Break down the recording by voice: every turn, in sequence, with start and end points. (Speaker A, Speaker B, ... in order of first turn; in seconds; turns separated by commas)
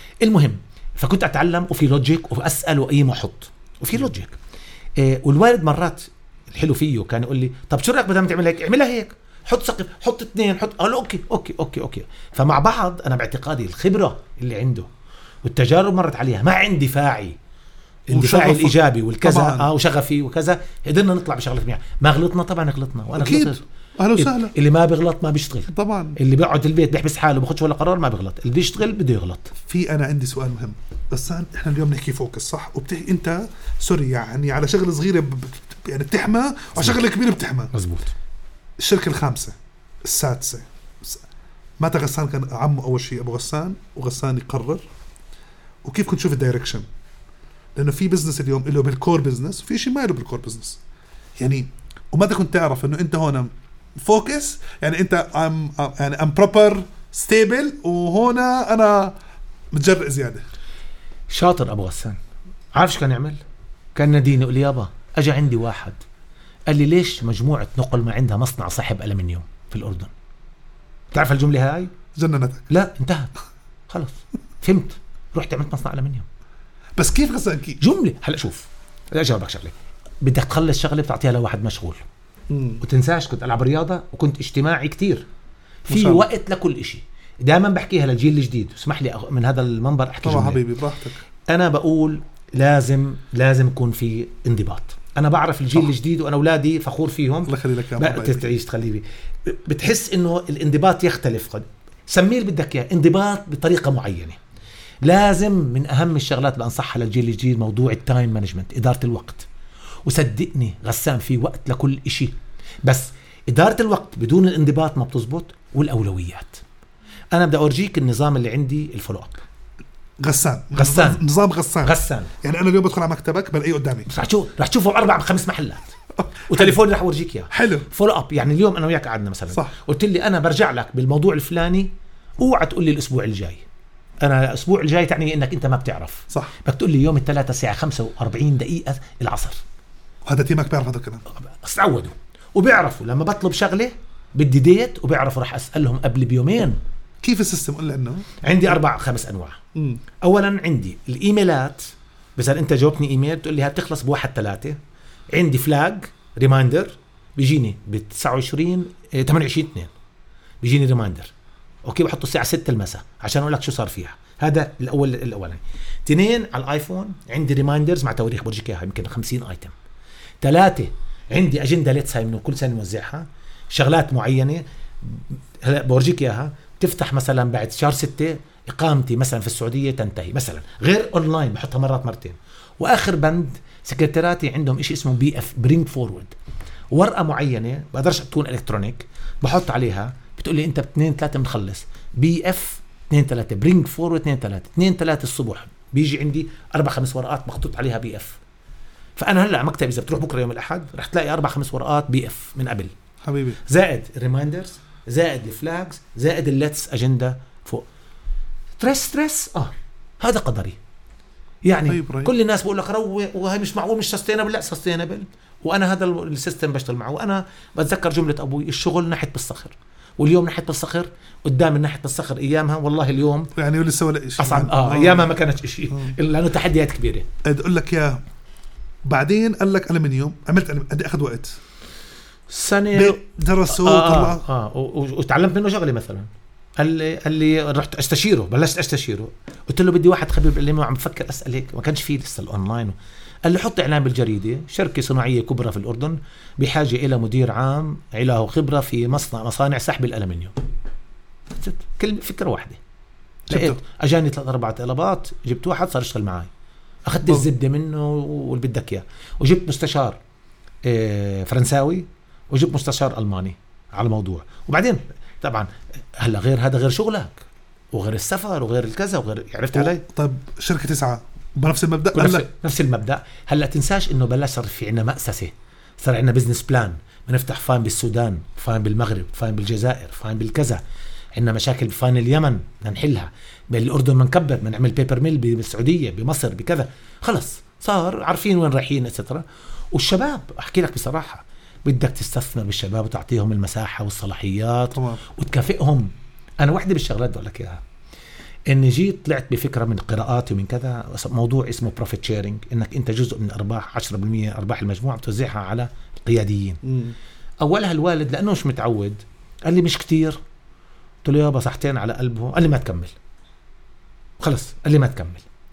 Speaker A: 0.2-4.4, Speaker A: 5.0-14.9, Speaker A: 15.4-17.4, Speaker A: 18.1-23.6, Speaker B: 18.1-19.7, Speaker B: 23.1-24.6, Speaker A: 24.2-29.5, Speaker B: 25.7-26.2, Speaker B: 29.7-37.7, Speaker A: 37.7-38.1, Speaker B: 38.8-41.2, Speaker B: 41.8-44.9, Speaker B: 45.8-46.9, Speaker B: 47.8-50.8, Speaker B: 51.4-59.1, Speaker B: 59.7-60.4, Speaker A: 61.3-62.2, Speaker A: 62.7-63.4, Speaker A: 64.0-66.0, Speaker A: 66.7-70.1, Speaker A: 71.1-71.9, Speaker B: 72.2-72.7, Speaker A: 72.7-73.3, Speaker A: 73.9-76.3, Speaker B: 77.0-77.8, Speaker A: 77.8-82.0, Speaker B: 82.5-82.8, Speaker A: 82.8-85.3, Speaker A: 85.9-90.6, Speaker B: 85.9-86.3, Speaker B: 90.2-91.2, Speaker A: 91.5-104.4, Speaker B: 97.5-98.5, Speaker A: 105.0-109.5, Speaker A: 110.0-112.3, Speaker A: 112.8-116.6, Speaker A: 117.3-119.4, Speaker B: 120.2-124.1, Speaker A: 120.7-121.2, Speaker A: 121.8-122.3, Speaker A: 124.1-126.0, Speaker B: 126.5-126.8, Speaker A: 126.5-133.7, Speaker B: 127.5-127.9, Speaker A: 134.2-139.6, Speaker B: 136.3-136.6, Speaker B: 140.3-141.2, Speaker A: 141.4-146.8, Speaker B: 147.2-148.3, Speaker A: 148.4-149.6, Speaker B: 149.8-150.0, Speaker A: 150.2-154.8, Speaker A: 155.3-159.9, Speaker A: 160.6-161.3, Speaker A: 161.8-169.7, Speaker A: 170.4-186.3, Speaker A: 186.9-198.4, Speaker A: 199.2-202.9, Speaker B: 203.2-203.6, Speaker A: 203.7-207.9, Speaker A: 208.8-210.8, Speaker A: 211.7-223.5, Speaker B: 211.9-212.3, Speaker B: 223.6-225.3, Speaker A: 224.4-227.3, Speaker B: 225.9-226.2, Speaker B: 227.4-228.2, Speaker B: 229.1-231.6, Speaker A: 232.5-250.6, Speaker B: 232.9-234.5, Speaker A: 251.5-252.8, Speaker B: 253.5-253.8, Speaker A: 253.5-256.5, Speaker A: 257.1-260.2, Speaker A: 260.8-270.0, Speaker B: 269.8-272.5, Speaker A: 272.1-280.8, Speaker A: 281.4-297.8, Speaker B: 294.9-295.2, Speaker A: 298.7-306.8, Speaker B: 306.8-307.2, Speaker A: 307.6-310.4, Speaker A: 311.2-313.2, Speaker A: 314.4-315.4